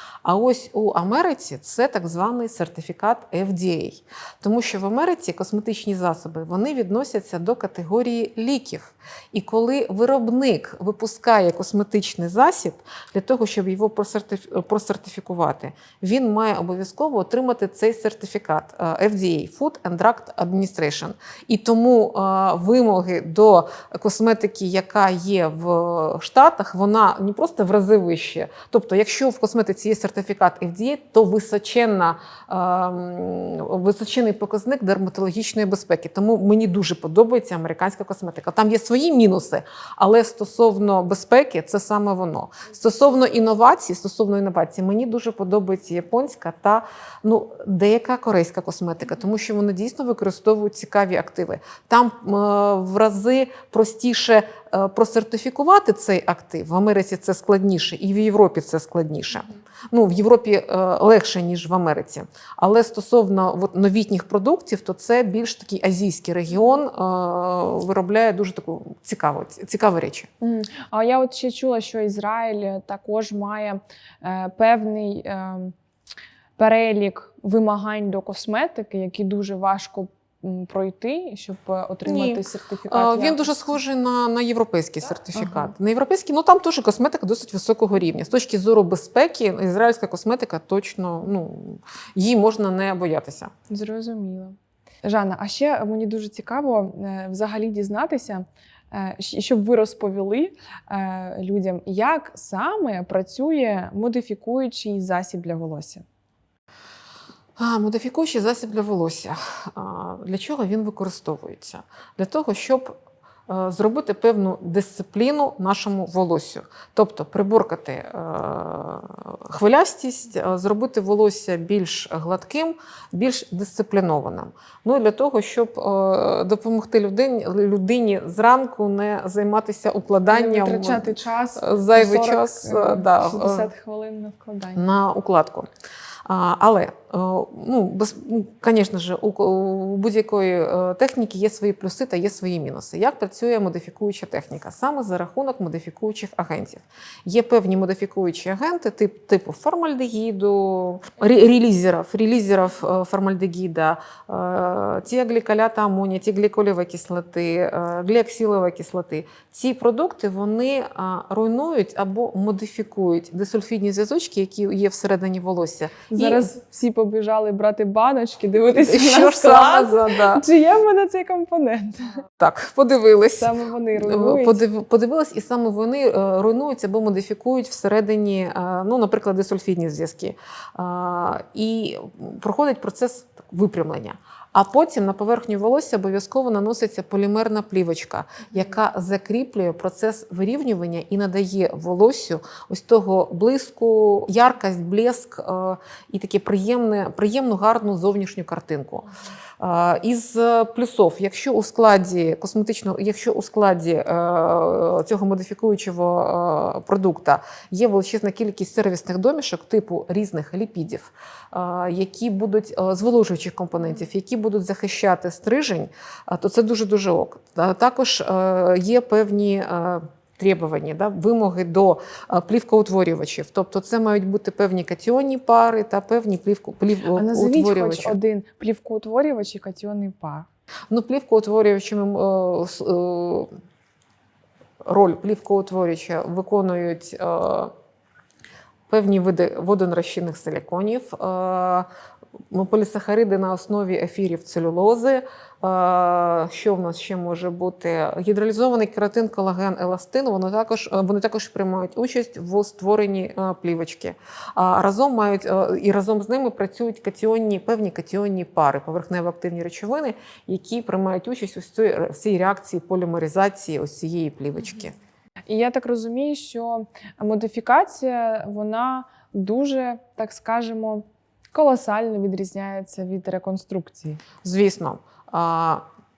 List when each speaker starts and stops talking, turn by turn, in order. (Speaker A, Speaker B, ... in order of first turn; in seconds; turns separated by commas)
Speaker A: 0.2-70.3, Speaker B: 70.4-75.7, Speaker B: 76.6-83.5, Speaker A: 82.0-93.5, Speaker B: 85.3-85.7, Speaker B: 93.7-106.0, Speaker A: 107.6-112.9, Speaker A: 113.5-133.7, Speaker B: 130.3-134.9, Speaker A: 134.7-135.7, Speaker A: 136.2-166.5, Speaker B: 166.1-172.2, Speaker A: 168.7-170.4, Speaker A: 172.4-199.1, Speaker B: 173.4-174.6, Speaker A: 199.6-228.1, Speaker B: 227.1-230.5, Speaker A: 230.9-233.5, Speaker A: 234.8-237.7, Speaker A: 238.9-241.8, Speaker A: 242.5-264.9, Speaker B: 265.5-274.2, Speaker A: 274.4-275.8